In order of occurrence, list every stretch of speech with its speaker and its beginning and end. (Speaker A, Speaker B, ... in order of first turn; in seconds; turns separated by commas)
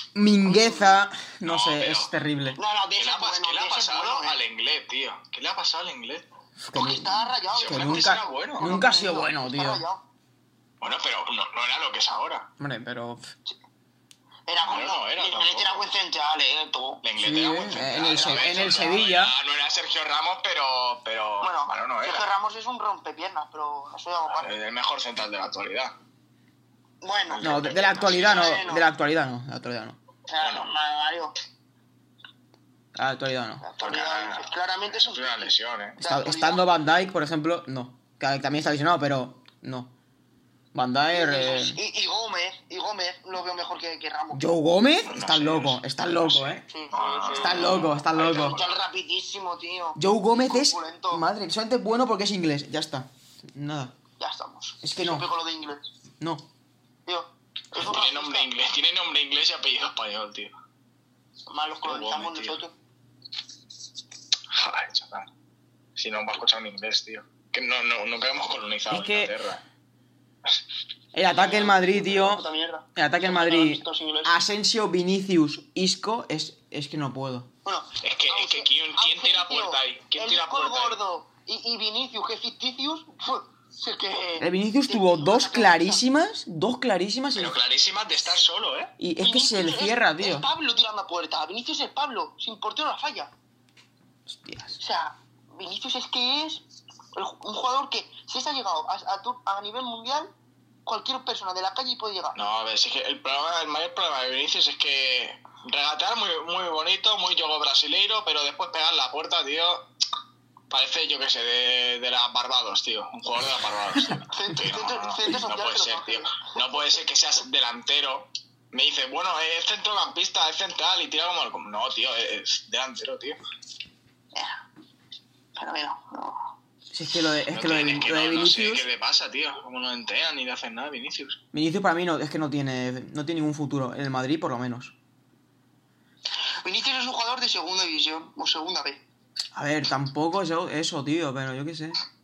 Speaker A: 0.1-2.6, Speaker B: 0.4-1.0, Speaker C: 1.4-2.1, Speaker B: 2.6-4.4, Speaker C: 3.0-6.3, Speaker A: 6.6-9.8, Speaker B: 6.8-10.0, Speaker C: 7.5-8.8, Speaker C: 10.8-12.5, Speaker A: 12.6-13.3, Speaker B: 14.5-17.0, Speaker C: 14.6-15.8, Speaker C: 17.0-22.3, Speaker A: 17.2-19.3, Speaker B: 18.0-19.1, Speaker B: 21.4-24.5, Speaker C: 24.3-26.0, Speaker B: 27.0-28.9, Speaker C: 27.3-28.6, Speaker A: 27.4-30.0, Speaker B: 30.3-31.4, Speaker C: 30.4-30.7, Speaker A: 33.0-33.7, Speaker B: 33.6-37.1, Speaker C: 33.8-36.0, Speaker A: 36.0-39.9, Speaker A: 40.7-41.8, Speaker B: 41.1-44.4, Speaker A: 44.3-46.7, Speaker C: 45.0-48.8, Speaker B: 46.7-51.2, Speaker A: 47.3-48.5, Speaker A: 50.0-54.0, Speaker B: 54.2-55.9, Speaker A: 54.8-55.3, Speaker A: 56.2-56.5, Speaker B: 57.1-58.5, Speaker C: 57.8-60.5, Speaker B: 61.5-62.7, Speaker C: 61.8-62.6, Speaker C: 64.5-65.3, Speaker C: 66.0-69.6, Speaker A: 68.9-69.3, Speaker A: 71.1-72.4, Speaker B: 71.3-74.4, Speaker A: 73.0-77.5, Speaker B: 77.7-86.0, Speaker C: 78.0-81.0, Speaker A: 84.4-87.6, Speaker C: 87.4-88.9, Speaker A: 89.0-90.5, Speaker B: 89.2-93.3, Speaker A: 94.3-94.8, Speaker B: 94.8-96.6, Speaker B: 97.1-100.3, Speaker B: 100.9-102.4, Speaker C: 102.4-109.9, Speaker C: 110.7-123.4, Speaker B: 114.2-116.8, Speaker B: 124.3-124.6, Speaker B: 125.6-126.5, Speaker A: 126.9-128.9, Speaker C: 127.5-131.4, Speaker A: 131.5-134.9, Speaker B: 136.6-139.0, Speaker A: 139.6-142.0